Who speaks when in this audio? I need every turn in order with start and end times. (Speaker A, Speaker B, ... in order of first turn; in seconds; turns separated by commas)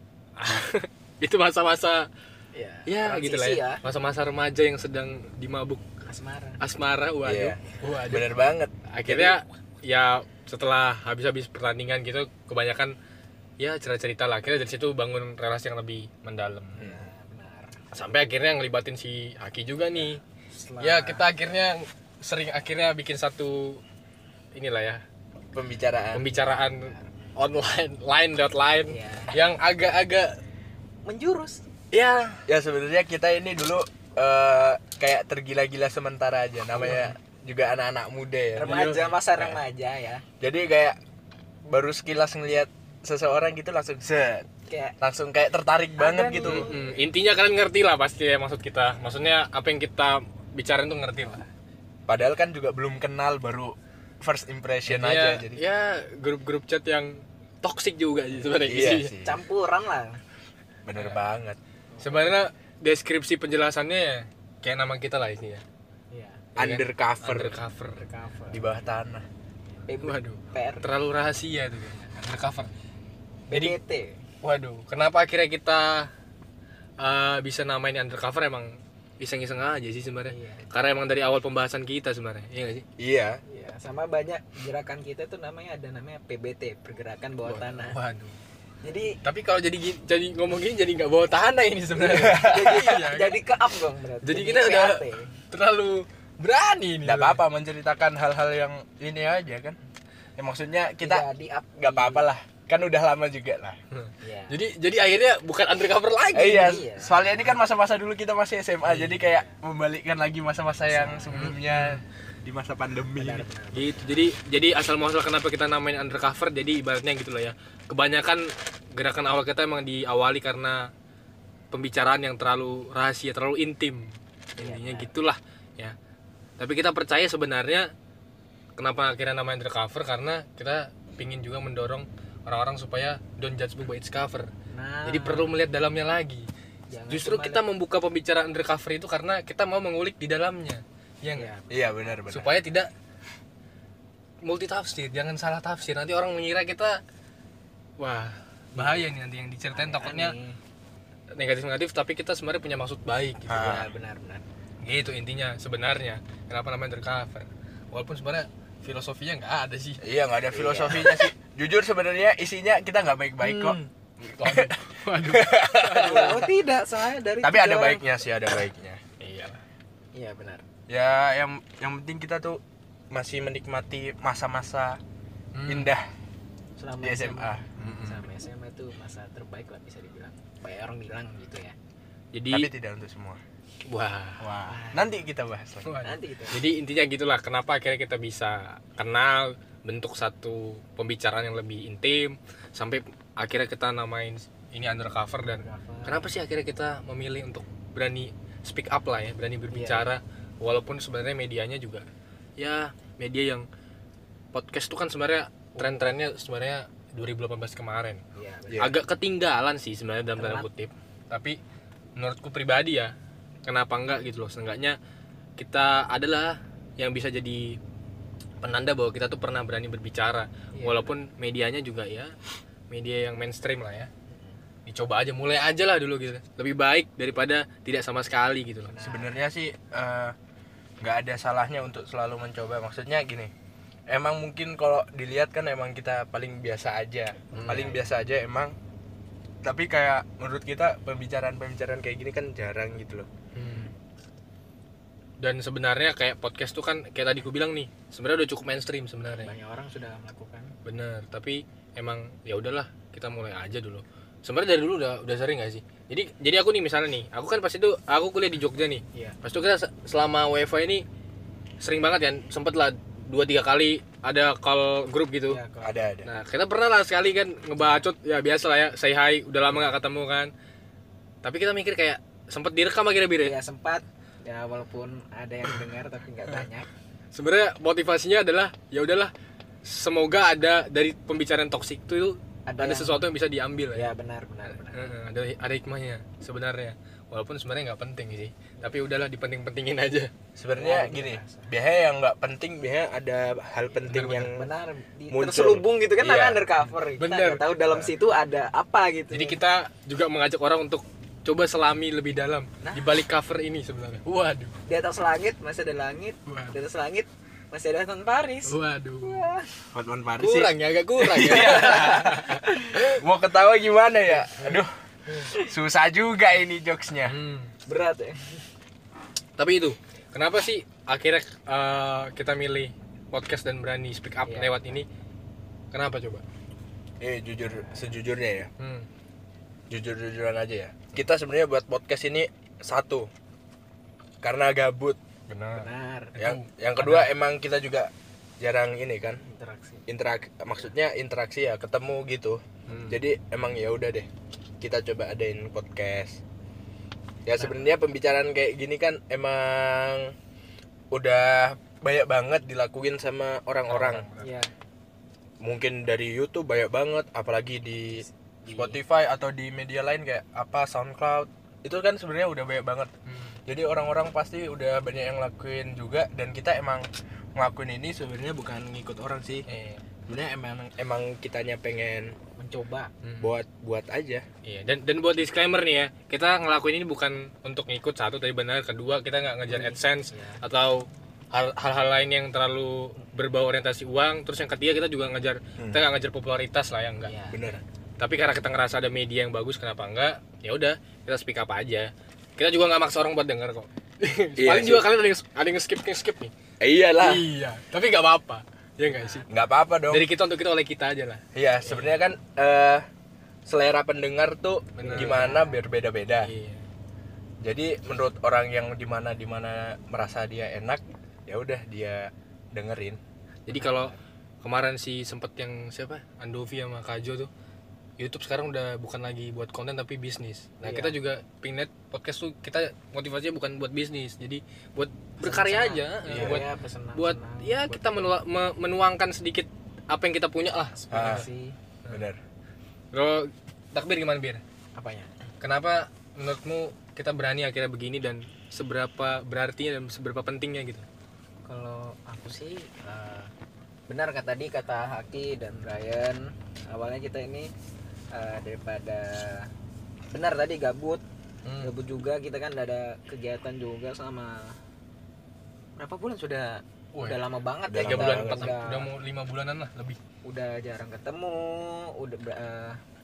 Speaker A: 0.4-2.1, Speaker B: 2.5-3.8, Speaker A: 2.9-5.8, Speaker B: 6.0-6.6, Speaker A: 6.6-8.3, Speaker C: 7.2-9.4, Speaker A: 8.9-12.9, Speaker A: 13.6-16.9, Speaker B: 16.8-17.8, Speaker A: 17.9-20.2, Speaker B: 20.5-21.2, Speaker A: 20.8-23.8, Speaker A: 24.5-25.0, Speaker C: 25.5-26.3, Speaker A: 26.1-30.4, Speaker B: 26.3-27.1, Speaker B: 28.9-29.4, Speaker B: 31.0-31.6, Speaker A: 31.9-32.5, Speaker C: 32.5-39.6, Speaker A: 36.8-37.1, Speaker B: 38.5-40.2, Speaker A: 38.6-39.1, Speaker C: 40.4-41.0, Speaker C: 41.7-44.5, Speaker B: 44.7-45.0, Speaker C: 45.0-46.7, Speaker B: 46.0-47.0, Speaker A: 46.4-51.5, Speaker C: 52.1-55.6, Speaker A: 54.9-59.1, Speaker C: 58.6-59.4, Speaker B: 59.2-60.2, Speaker C: 60.9-61.6, Speaker B: 61.9-62.3, Speaker A: 62.0-65.6, Speaker B: 66.1-66.5, Speaker C: 66.6-67.6, Speaker A: 66.6-68.0, Speaker B: 67.9-68.6, Speaker C: 68.5-69.2, Speaker B: 69.9-70.9, Speaker A: 70.0-72.7, Speaker B: 73.5-74.2, Speaker A: 73.5-73.7, Speaker A: 74.4-76.1, Speaker A: 77.0-82.8, Speaker B: 80.3-80.7, Speaker C: 83.0-83.4, Speaker B: 83.5-88.0, Speaker A: 87.4-88.4, Speaker B: 88.8-89.2, Speaker A: 89.2-93.4, Speaker B: 92.0-95.3, Speaker C: 92.1-92.8, Speaker A: 94.2-97.4, Speaker C: 97.0-99.8, Speaker C: 100.4-101.2, Speaker B: 101.0-102.2, Speaker C: 101.8-103.8, Speaker A: 103.9-106.8, Speaker B: 104.2-104.6, Speaker C: 106.3-113.4, Speaker B: 106.3-107.3, Speaker B: 109.0-109.6, Speaker B: 110.9-111.5, Speaker A: 111.3-112.0, Speaker B: 113.2-114.2, Speaker A: 113.7-120.9, Speaker A: 121.7-125.9, Speaker B: 124.6-125.1, Speaker A: 126.6-127.9, Speaker A: 128.8-134.5, Speaker B: 134.7-135.5, Speaker A: 135.1-136.5, Speaker B: 136.9-137.6, Speaker A: 137.1-141.5, Speaker B: 141.3-142.5, Speaker C: 141.7-142.6, Speaker A: 142.3-142.9, Speaker A: 144.4-147.0, Speaker A: 148.0-150.3, Speaker B: 148.7-149.1, Speaker B: 149.7-150.6, Speaker A: 151.3-153.8, Speaker C: 153.5-153.9, Speaker B: 153.5-154.4, Speaker A: 154.8-160.0, Speaker C: 160.0-166.4, Speaker B: 160.5-161.3, Speaker A: 163.4-166.5, Speaker B: 165.9-168.1, Speaker C: 167.4-169.0, Speaker A: 169.2-169.6, Speaker B: 170.1-170.6, Speaker C: 170.9-175.0, Speaker A: 175.5-175.9, Speaker C: 175.7-176.1, Speaker B: 176.8-181.8, Speaker C: 177.0-177.8, Speaker A: 177.8-178.2, Speaker A: 182.3-182.7, Speaker C: 182.5-183.4, Speaker A: 183.9-184.4, Speaker C: 184.4-185.9, Speaker B: 184.7-185.1, Speaker A: 185.8-202.1, Speaker B: 186.0-186.6, Speaker B: 195.5-196.3, Speaker B: 199.7-200.1, Speaker A: 202.6-203.7, Speaker A: 204.5-208.2, Speaker B: 205.7-206.1, Speaker B: 208.3-208.9, Speaker C: 208.7-208.9, Speaker A: 208.8-211.6, Speaker B: 210.3-210.7, Speaker A: 212.2-213.1, Speaker A: 213.6-215.0, Speaker A: 215.6-217.8, Speaker A: 218.6-222.3, Speaker B: 220.7-221.1, Speaker A: 222.9-224.1, Speaker B: 224.3-224.6, Speaker A: 224.8-228.9, Speaker B: 228.9-229.3, Speaker C: 229.0-230.3, Speaker C: 231.0-233.5, Speaker C: 234.1-238.7, Speaker B: 237.5-238.0, Speaker A: 237.5-237.9, Speaker C: 239.6-243.3, Speaker A: 243.5-243.9, Speaker A: 245.4-249.5, Speaker B: 249.4-250.7, Speaker A: 250.8-261.0, Speaker A: 261.8-265.6, Speaker B: 265.5-266.0, Speaker C: 265.8-266.3, Speaker A: 266.2-270.5, Speaker A: 271.4-273.6, Speaker B: 273.4-276.9, Speaker A: 277.3-279.3, Speaker A: 279.8-284.1, Speaker B: 282.7-283.2, Speaker B: 283.9-285.1, Speaker A: 284.7-290.3, Speaker C: 290.6-294.7, Speaker B: 290.7-291.7, Speaker A: 294.1-294.5, Speaker B: 294.5-299.6, Speaker C: 295.3-296.6, Speaker A: 296.3-297.6, Speaker A: 299.3-304.7, Speaker B: 302.8-303.1, Speaker B: 304.9-309.7, Speaker A: 306.4-306.7, Speaker A: 308.6-309.4, Speaker C: 309.9-314.9, Speaker A: 310.4-313.2, Speaker B: 311.8-312.1, Speaker C: 315.5-317.4, Speaker A: 317.2-317.7, Speaker B: 317.9-318.4, Speaker A: 319.6-325.1, Speaker B: 324.4-325.0, Speaker A: 325.9-326.4, Speaker C: 327.2-328.7, Speaker A: 328.8-329.1, Speaker C: 329.9-333.3, Speaker C: 334.4-335.2, Speaker A: 335.5-337.3, Speaker B: 335.7-336.4, Speaker C: 336.4-339.4, Speaker B: 339.4-340.1, Speaker C: 340.1-344.3, Speaker A: 342.9-343.2, Speaker C: 344.8-346.4, Speaker C: 347.4-350.3, Speaker B: 347.6-347.9, Speaker C: 351.1-354.3, Speaker A: 353.9-354.6, Speaker B: 354.4-354.7, Speaker C: 355.6-363.1, Speaker B: 358.2-359.0, Speaker A: 363.3-363.6, Speaker C: 363.7-369.6, Speaker A: 369.7-370.0, Speaker C: 370.2-372.4, Speaker B: 372.6-373.1, Speaker A: 373.2-373.5, Speaker C: 373.4-374.4, Speaker A: 374.6-387.4, Speaker B: 379.7-380.6, Speaker B: 387.2-387.8, Speaker C: 387.5-387.8, Speaker A: 388.2-396.5, Speaker C: 394.6-395.1, Speaker C: 396.8-397.5, Speaker A: 397.2-399.4, Speaker B: 399.0-399.5, Speaker C: 399.5-400.2, Speaker A: 400.1-402.2, Speaker C: 401.5-403.0, Speaker C: 403.6-406.5, Speaker A: 405.0-405.5, Speaker B: 405.0-405.8, Speaker A: 406.4-406.8, Speaker C: 407.6-413.2, Speaker A: 413.6-417.5, Speaker B: 413.7-414.2, Speaker A: 418.2-431.4, Speaker B: 420.8-421.1, Speaker B: 425.4-428.3, Speaker C: 426.3-426.6, Speaker B: 431.0-431.8, Speaker C: 431.1-431.5, Speaker C: 432.1-432.4, Speaker A: 433.1-434.6, Speaker B: 434.9-435.3, Speaker A: 435.6-441.1, Speaker B: 441.6-443.5, Speaker B: 444.1-447.7, Speaker B: 448.3-449.7, Speaker B: 450.3-451.2, Speaker A: 451.6-451.9, Speaker B: 451.8-454.8, Speaker B: 456.0-459.1, Speaker A: 457.1-457.4, Speaker C: 457.9-458.7, Speaker A: 458.0-460.2, Speaker B: 460.4-463.0